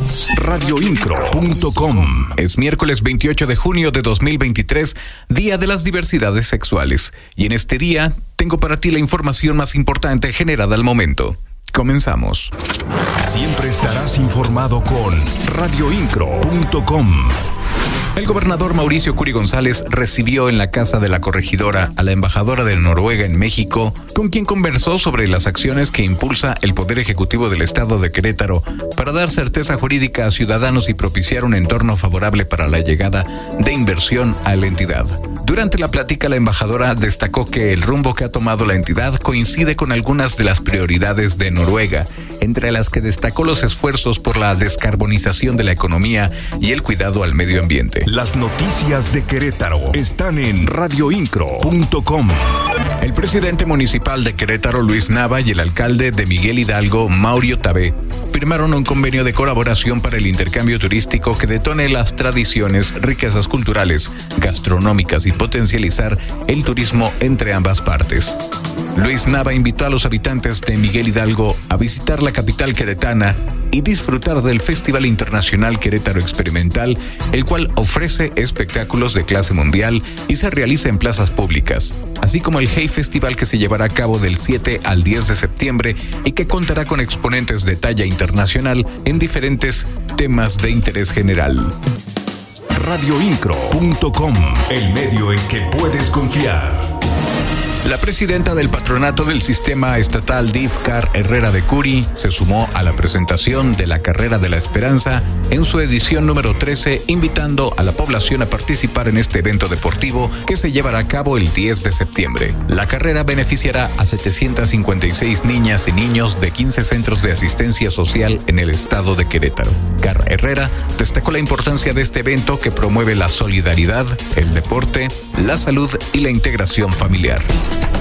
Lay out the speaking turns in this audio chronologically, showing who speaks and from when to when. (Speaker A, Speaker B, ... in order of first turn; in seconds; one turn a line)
Speaker A: 0.3-2.3
Speaker B: 2.4-12.5
Speaker A: 13.2-17.4
Speaker B: 18.2-48.1
Speaker A: 48.1-52.4
Speaker B: 53.0-68.4
Speaker B: 69.0-91.8
Speaker A: 92.7-96.9
Speaker B: 97.8-127.5